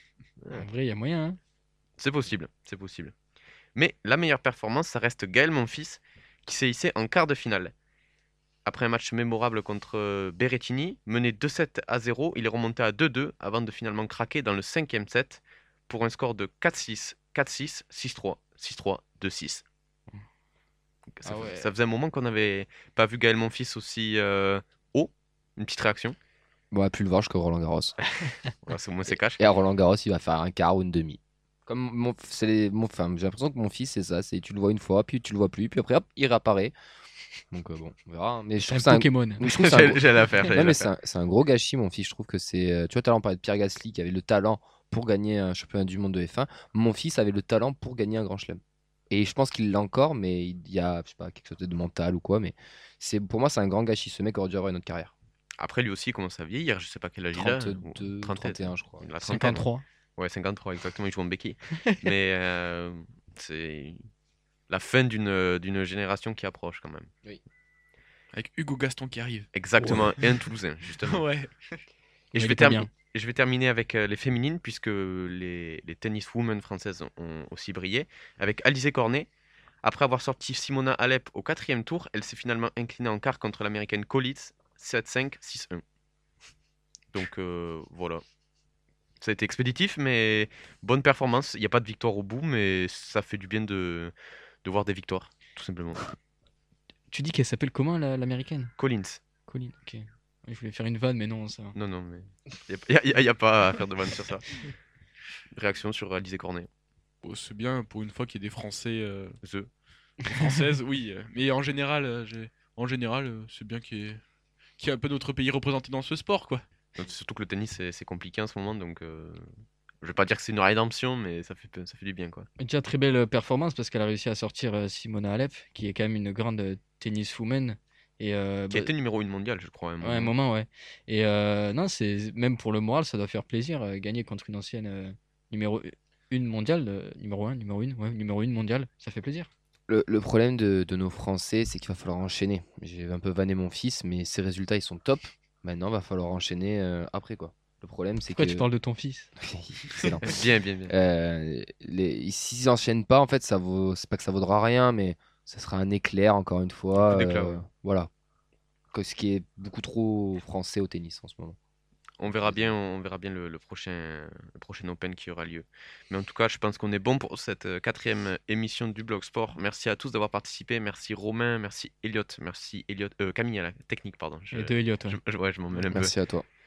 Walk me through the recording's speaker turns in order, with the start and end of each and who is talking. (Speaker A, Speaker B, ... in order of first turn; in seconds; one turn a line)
Speaker A: 0.4-0.7
Speaker B: 0.5-1.4
Speaker A: 2.0-3.1
Speaker A: 3.8-7.7
Speaker A: 8.7-19.6
Speaker A: 21.1-26.1
Speaker B: 21.2-21.7
Speaker C: 26.7-28.0
Speaker A: 28.6-29.4
Speaker C: 29.4-36.7
Speaker C: 37.5-55.1
Speaker B: 38.6-39.4
Speaker A: 39.4-40.9
Speaker A: 55.6-59.6
Speaker C: 57.3-59.1
Speaker B: 59.2-59.8
Speaker A: 60.2-64.0
Speaker A: 64.7-67.1
Speaker D: 68.3-70.4
Speaker A: 69.5-71.2
Speaker D: 71.0-71.8
Speaker B: 72.3-72.9
Speaker A: 72.3-79.3
Speaker A: 79.8-85.8
Speaker A: 87.1-88.2
Speaker A: 89.2-94.1
Speaker A: 94.6-96.1
Speaker B: 97.1-98.7
Speaker A: 98.8-99.2
Speaker B: 99.5-101.8
Speaker A: 101.7-104.7
Speaker A: 105.5-106.7
Speaker D: 107.2-109.4
Speaker A: 109.4-109.7
Speaker D: 110.3-114.2
Speaker D: 114.8-116.6
Speaker A: 117.0-119.5
Speaker A: 120.0-122.5
Speaker B: 122.6-128.9
Speaker A: 128.7-130.3
Speaker B: 130.0-139.5
Speaker C: 139.9-148.6
Speaker B: 148.3-149.3
Speaker C: 149.4-150.3
Speaker A: 150.2-150.9
Speaker C: 150.9-158.1
Speaker A: 157.1-157.6
Speaker C: 158.9-161.6
Speaker A: 162.2-176.1
Speaker C: 162.2-162.7
Speaker B: 174.5-175.2
Speaker C: 175.9-176.4